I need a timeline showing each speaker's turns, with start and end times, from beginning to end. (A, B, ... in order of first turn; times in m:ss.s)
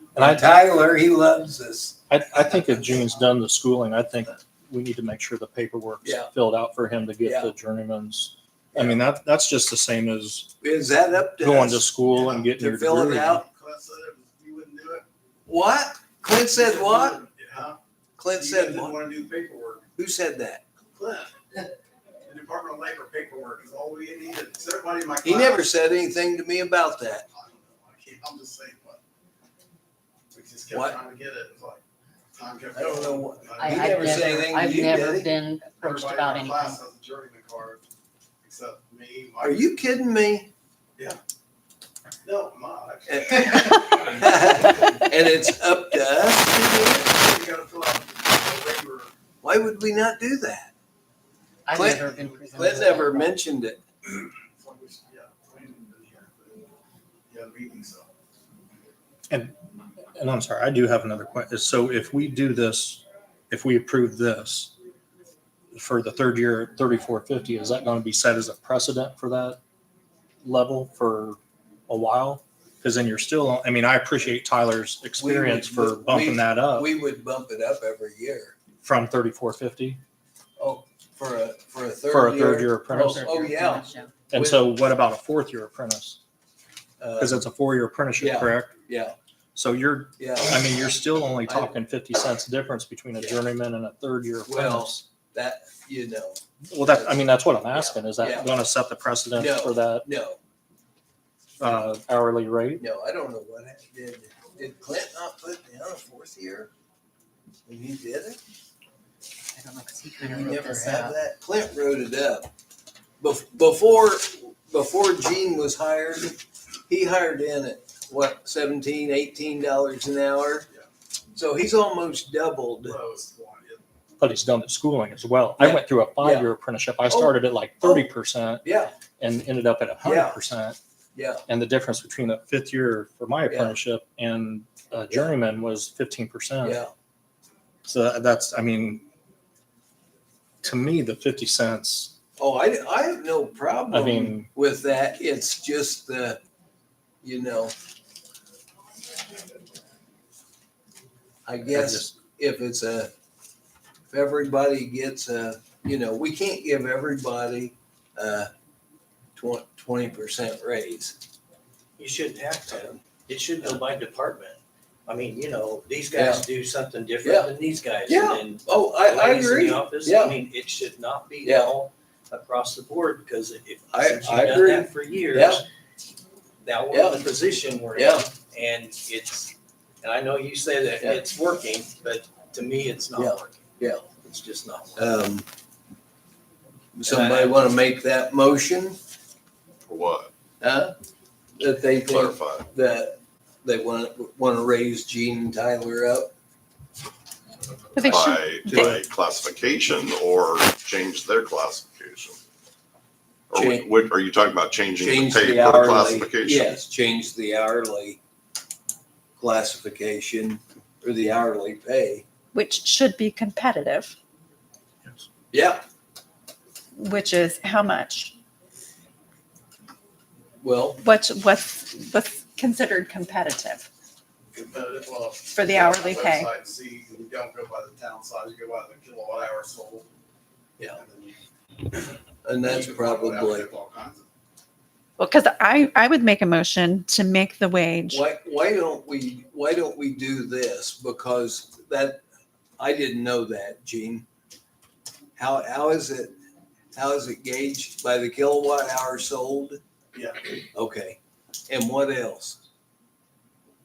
0:00.1-0:02.0 A
0:00.2-0:00.5 B
0:02.1-0:10.5 B
0:06.0-0:06.3 A
0:07.2-0:07.5 A
0:08.7-0:09.0 A
0:10.6-0:11.9 A
0:11.4-0:13.4 B
0:12.1-0:12.5 C
0:12.6-0:13.4 A
0:13.4-0:15.0 C
0:15.5-0:17.2 A
0:16.5-0:17.8 C
0:18.2-0:19.0 A
0:18.3-0:19.8 C
0:20.0-0:20.6 A
0:20.9-0:21.6 C
0:22.2-0:25.7 C
0:25.2-0:27.2 A
0:27.3-0:29.0 C
0:30.3-0:31.8 C
0:30.7-0:31.0 A
0:32.3-0:34.9 C
0:32.7-0:35.3 A
0:33.6-0:36.8 D
0:35.8-0:37.8 C
0:38.4-0:39.6 C
0:39.4-0:40.5 A
0:42.2-0:45.1 C
0:43.1-0:47.1 A
0:47.0-0:49.1 C
0:49.4-0:50.7 A
0:51.6-0:53.3 D
0:51.7-0:53.8 A
0:52.2-0:52.8 C
0:54.6-0:56.6 C
0:57.3-0:58.1 C
0:59.3-0:59.6 B
1:00.2-1:04.7 B
1:05.7-1:09.6 B
1:10.4-1:16.9 B
1:15.2-1:18.6 A
1:18.8-1:20.0 B
1:20.6-1:24.6 A
1:22.1-1:23.3 B
1:22.9-1:24.1 D
1:24.3-1:26.2 B
1:27.0-1:27.4 A
1:27.2-1:28.8 B
1:28.2-1:29.2 A
1:29.5-1:35.0 B
1:30.2-1:30.6 A
1:31.4-1:31.7 A
1:33.2-1:33.4 A
1:34.4-1:37.2 A
1:36.7-1:40.1 B
1:37.7-1:38.5 A
1:39.4-1:40.4 A
1:41.6-1:42.8 B
1:42.8-1:46.7 A
1:47.6-1:48.4 A
1:49.5-1:51.1 D
1:50.2-1:52.5 A
1:53.2-2:00.7 A
2:01.3-2:03.0 A
2:02.8-2:03.8 C
2:04.2-2:08.6 B
2:05.6-2:06.5 A
2:07.1-2:08.1 A
2:08.6-2:08.9 A
2:09.2-2:10.8 B
2:10.0-2:10.4 A
2:11.1-2:11.4 A
2:11.5-2:16.8 B
2:13.5-2:13.8 A
2:16.6-2:16.9 A
2:17.8-2:19.1 B
2:20.6-2:22.1 B
2:22.4-2:26.4 A
2:23.9-2:24.5 B
2:27.2-2:27.7 A
2:31.4-2:33.1 A
2:31.7-2:32.1 B
2:34.1-2:38.5 A
2:39.4-2:41.2 A
2:42.0-2:55.6 E
2:46.2-2:46.4 A
2:47.2-2:47.5 A
2:48.1-2:50.4 A
2:51.4-2:51.7 A
2:53.9-2:55.6 A
2:56.6-3:05.2 E
2:56.9-2:57.2 A
2:57.9-2:58.3 A
3:03.1-3:04.0 A
3:05.0-3:05.5 A
3:07.0-3:09.0 A
3:07.0-3:07.6 E
3:09.9-3:10.3 F
3:10.6-3:10.9 A
3:11.6-3:16.3 A
3:12.1-3:12.7 F
3:18.0-3:22.4 F
3:18.0-3:18.3 G
3:23.5-3:26.8 F
3:23.5-3:23.9 A
3:25.0-3:28.2 A
3:29.4-3:32.2 A
3:32.5-3:34.1 G
3:35.5-3:35.8 A
3:37.0-3:38.3 G
3:40.6-3:41.0 A
3:41.0-3:43.8 G
3:44.5-3:50.1 C
3:45.6-3:46.4 G
3:50.9-3:51.4 C
3:52.4-3:53.7 A
3:52.6-3:54.3 C
3:55.2-3:58.2 G
3:58.1-4:02.2 A
4:02.8-4:04.2 A
4:05.4-4:06.3 A
4:06.9-4:09.8 A
4:10.1-4:10.5 C
4:10.7-4:12.6 A